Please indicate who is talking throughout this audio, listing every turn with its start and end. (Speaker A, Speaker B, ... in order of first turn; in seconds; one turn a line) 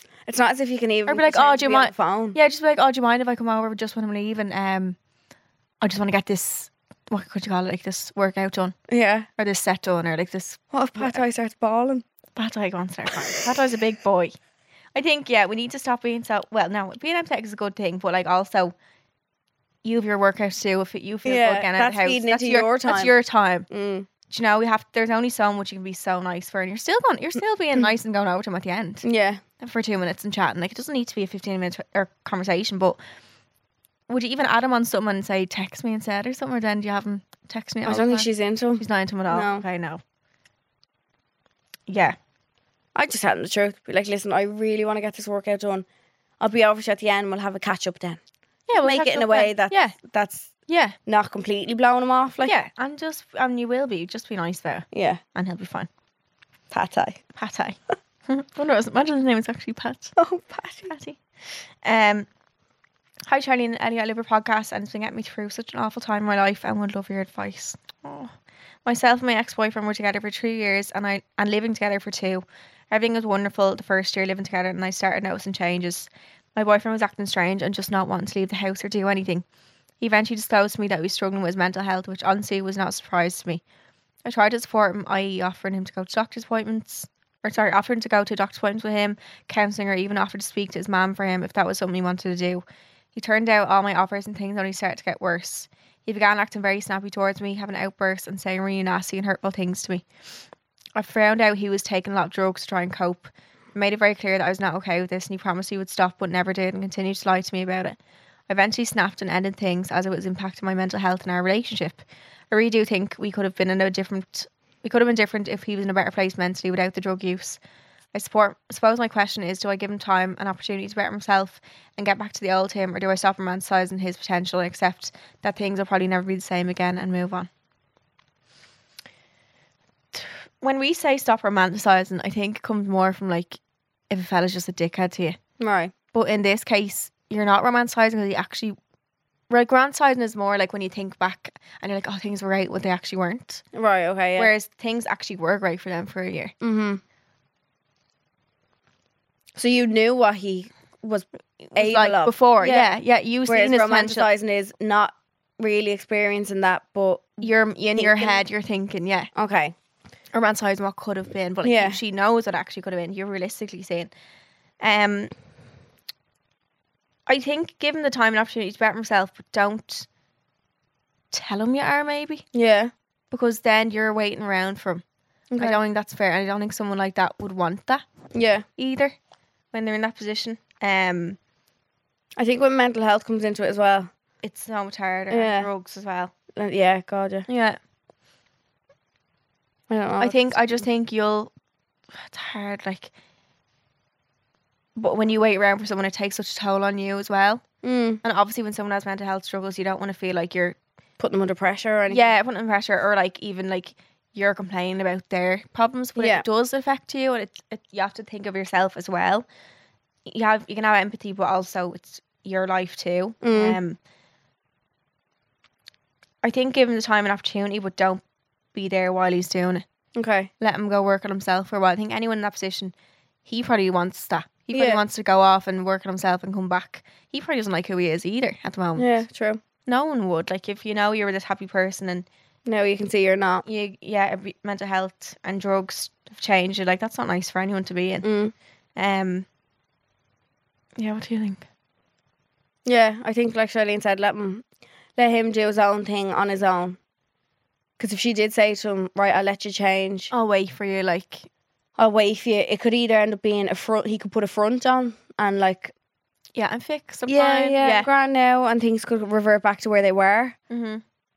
Speaker A: 0.3-2.4
Speaker B: 1.1-5.0
Speaker B: 5.8-8.8
Speaker A: 8.9-9.3
Speaker B: 9.4-11.2
Speaker A: 10.7-12.1
Speaker B: 12.4-14.3
Speaker B: 14.9-18.8
Speaker B: 19.8-23.7
Speaker A: 21.2-23.1
Speaker A: 23.7-24.1
Speaker B: 24.3-29.1
Speaker A: 29.0-29.4
Speaker B: 29.6-33.0
Speaker B: 34.1-40.0
Speaker A: 37.9-39.6
Speaker B: 41.9-42.2
Speaker A: 43.0-45.9
Speaker A: 46.4-48.2
Speaker B: 48.7-50.0
Speaker A: 48.8-50.5
Speaker B: 50.7-51.0
Speaker A: 51.1-52.5
Speaker B: 52.4-55.9
Speaker A: 54.9-55.2
Speaker A: 56.7-57.2
Speaker B: 57.4-60.2
Speaker A: 60.2-60.9
Speaker B: 60.9-61.2
Speaker B: 61.8-62.3
Speaker B: 63.3-68.3
Speaker B: 68.8-79.5
Speaker B: 80.0-83.6
Speaker B: 84.2-92.6
Speaker B: 93.2-100.0
Speaker B: 101.0-108.0
Speaker B: 108.5-117.6
Speaker B: 118.1-127.5
Speaker B: 130.1-135.4
Speaker A: 135.6-135.9
Speaker B: 136.1-138.8
Speaker B: 139.5-143.6
Speaker A: 143.7-144.5
Speaker B: 144.4-146.5
Speaker A: 146.6-147.0
Speaker A: 149.6-152.9
Speaker B: 151.6-154.3
Speaker A: 153.5-158.4
Speaker B: 157.4-159.3
Speaker A: 159.3-159.8
Speaker B: 160.3-164.1
Speaker A: 161.6-162.0
Speaker B: 164.8-165.3
Speaker B: 167.3-170.1
Speaker B: 171.3-172.4
Speaker A: 172.5-172.9
Speaker B: 173.3-175.0
Speaker A: 175.5-175.8
Speaker B: 175.6-178.1
Speaker A: 178.3-178.7
Speaker B: 178.8-179.2
Speaker B: 179.7-181.4
Speaker A: 182.4-184.1
Speaker B: 184.4-186.3
Speaker A: 185.3-185.7
Speaker A: 186.6-187.5
Speaker B: 187.5-187.8
Speaker A: 189.9-190.8
Speaker B: 190.2-191.5
Speaker B: 192.2-193.1
Speaker B: 195.0-197.7
Speaker A: 197.8-198.2
Speaker B: 198.2-200.8
Speaker A: 201.2-202.2
Speaker B: 202.1-209.5
Speaker A: 206.2-206.4
Speaker B: 210.3-214.0
Speaker A: 213.4-213.8
Speaker B: 216.4-218.2
Speaker B: 218.7-219.8
Speaker A: 220.2-220.5
Speaker B: 220.6-222.9
Speaker B: 223.4-229.2
Speaker A: 224.7-225.0
Speaker A: 229.0-229.6
Speaker B: 229.9-232.3
Speaker A: 232.7-233.7
Speaker B: 233.7-238.3
Speaker A: 238.2-238.5
Speaker B: 239.0-239.5
Speaker B: 241.0-241.7
Speaker A: 242.9-244.6
Speaker A: 245.2-247.0
Speaker A: 248.0-250.3
Speaker B: 250.3-251.5
Speaker A: 252.0-255.9
Speaker B: 256.6-258.1
Speaker A: 257.3-260.6
Speaker B: 260.7-261.0